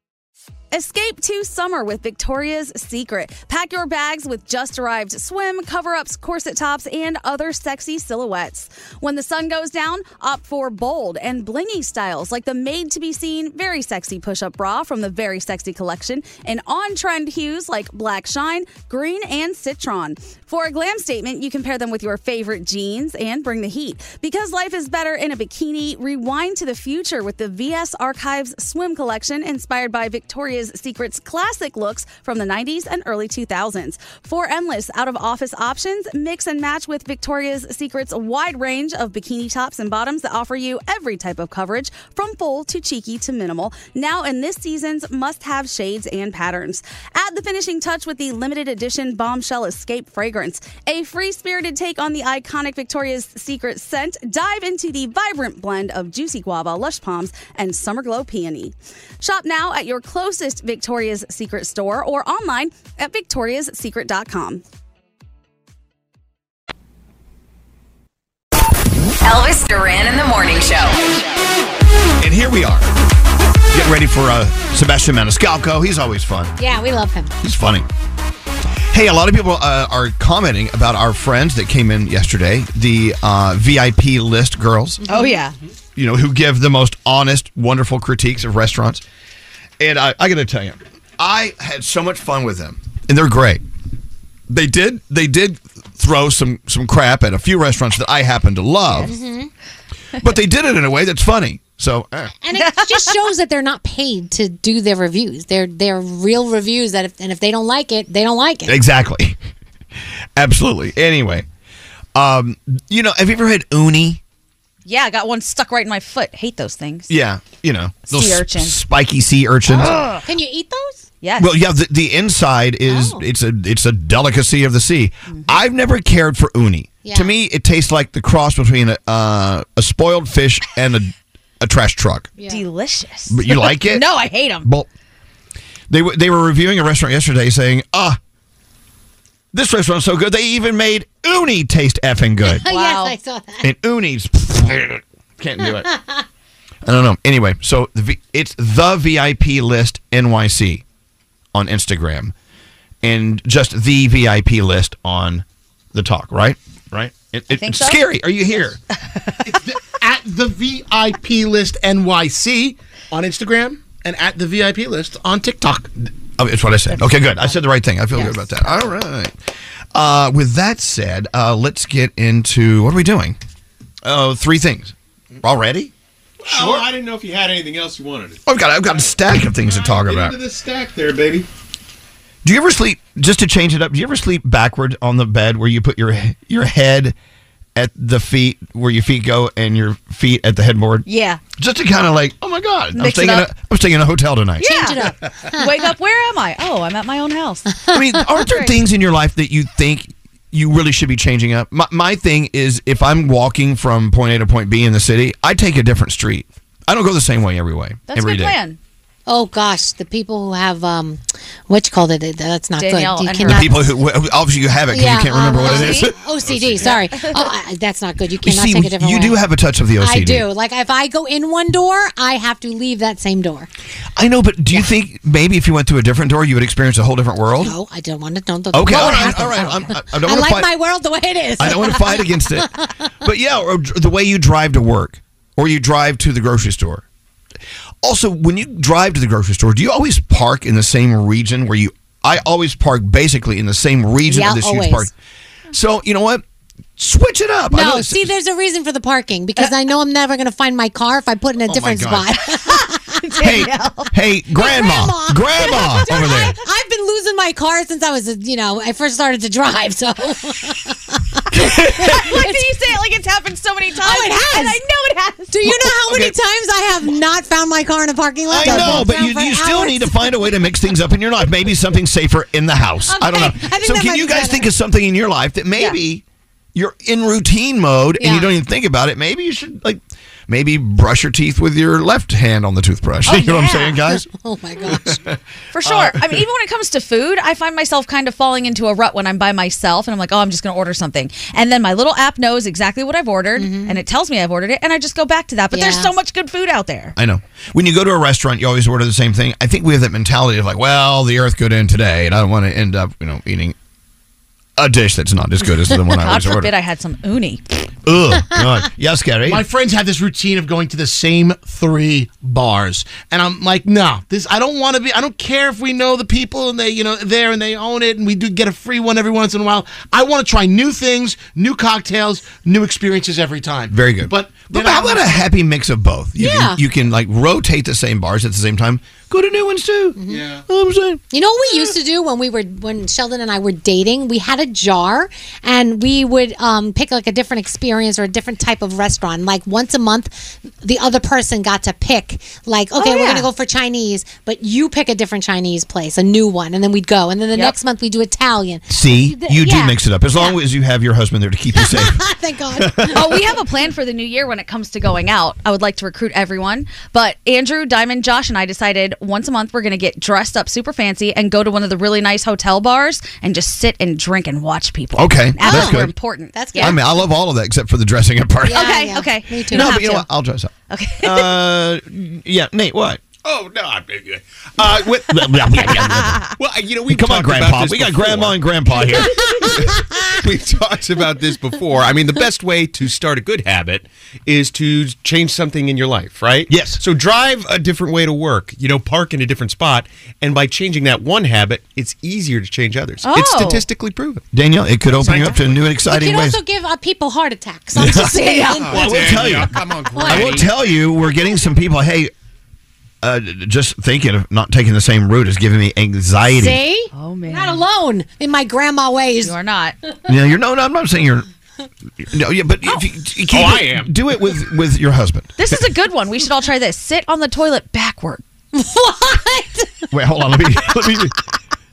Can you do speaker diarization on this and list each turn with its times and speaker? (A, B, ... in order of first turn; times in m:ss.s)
0:00.7-1:04.6 A
1:09.2-1:11.2 B
1:12.2-1:12.9 C
1:13.7-1:16.6 C
1:16.6-1:17.3 D
1:17.4-1:17.9 C
1:18.9-1:25.0 C
1:25.1-1:25.5 A
1:26.0-1:29.0 C
1:29.8-1:33.6 C
1:34.5-1:39.1 C
1:39.0-1:39.5 D
1:40.2-1:42.3 C
1:42.4-1:48.8 D
1:42.6-1:42.8 A
1:48.7-1:49.4 C
1:50.4-1:51.5 C
1:52.2-1:54.2 C
1:54.9-1:57.1 A
1:57.1-2:00.1 C
1:58.1-1:58.8 A
1:59.7-2:01.0 D
2:01.2-2:01.5 A
2:01.4-2:12.3 C
2:02.9-2:03.2 D
2:05.3-2:05.6 A
2:07.0-2:07.3 D
2:12.4-2:12.6 D
2:12.5-2:14.7 A
2:13.3-2:14.1 C
2:15.9-2:18.2 C
2:19.5-2:22.7 C
2:22.4-2:23.7 D
2:22.7-2:23.1 A
2:23.6-2:25.9 C
2:25.7-2:26.2 D
2:26.8-2:30.8 C
2:31.5-2:32.3 C
2:33.0-2:38.8 C
2:37.5-2:38.0 A
2:39.4-2:46.1 E
2:46.4-2:49.3 C
2:49.9-2:53.4 C
2:54.0-2:55.9 C
2:56.4-2:58.4 F
2:56.5-2:56.9 C
2:58.4-3:00.4 C
2:59.7-3:01.5 F
3:02.4-3:07.2 C
3:07.8-3:11.1 C
3:11.1-3:11.4 A
3:11.6-3:14.7 C
3:13.0-3:13.5 A
3:14.6-3:17.7 A
3:14.6-3:15.8 D
3:17.9-3:28.6 C
3:18.5-3:18.8 A
3:28.1-3:28.8 A
3:29.3-3:33.9 D
3:32.8-3:33.6 A
3:33.4-3:37.0 C
3:34.9-3:39.4 D
3:35.6-3:36.1 A
3:36.8-3:37.4 A
3:38.4-3:40.5 C
3:40.0-3:43.7 D
3:44.2-3:47.8 C
3:47.6-3:52.9 D
3:48.7-3:50.7 C
3:51.6-3:52.7 C
3:53.2-3:57.0 C
3:58.0-4:05.1 C
4:04.3-4:05.1 D
4:05.7-4:06.4 C
4:07.0-4:08.3 C
4:07.7-4:13.5 D
4:11.6-4:12.3 C
4:13.2-4:14.1 A
4:13.4-4:16.6 C
4:14.6-4:22.6 D
4:21.6-4:22.2 C
4:22.0-4:25.6 A
4:24.0-4:24.8 D
4:25.5-4:30.5 D
4:25.7-4:26.4 C
4:28.5-4:36.2 C
4:28.6-4:29.1 A
4:33.1-4:34.7 D
4:36.8-4:44.2 C
4:38.2-4:38.5 D
4:43.3-4:45.2 D
4:44.9-4:46.4 C
4:45.7-4:57.2 A
4:53.6-4:54.0 D
4:55.7-4:56.1 D
4:57.2-5:03.8 C
5:04.8-5:06.7 C
5:06.2-5:07.6 A
5:08.0-5:09.6 C
5:09.5-5:25.5 E
5:23.9-5:31.2 C
5:26.4-5:26.8 D
5:30.2-5:30.5 D
5:31.3-5:50.6 D
5:43.0-5:43.5 A
5:48.9-5:52.2 C
5:51.8-5:53.4 D
5:52.8-5:53.4 C
5:53.1-6:07.0 A
6:05.2-6:06.1 C
6:05.6-6:07.1 D
6:06.8-6:09.0 C
6:08.7-6:09.9 D
6:08.7-6:10.3 A
6:09.7-6:10.7 C
6:10.9-6:11.5 A
6:11.2-6:13.2 C
6:13.4-6:14.9 F
6:14.8-6:16.5 C
6:15.8-6:16.4 A
6:16.6-6:18.6 F
6:17.1-6:19.4 C
6:19.2-6:19.7 D
6:20.4-6:34.4 F
6:26.7-6:27.0 C
6:33.2-6:33.8 A
6:34.5-6:36.6 C
6:35.1-6:35.6 F
6:36.0-6:39.2 D
6:38.0-6:42.3 C
6:38.1-6:38.9 A
6:38.9-6:40.7 F
6:40.1-6:40.5 D
6:43.2-6:46.8 C
6:46.5-6:49.6 D
6:47.1-6:47.8 A
6:49.4-6:49.9 A
6:50.3-6:51.5 C
6:52.3-6:55.8 C
6:53.5-6:54.1 F
6:55.6-6:58.4 A
6:58.7-7:00.0 D
7:00.1-7:01.4 C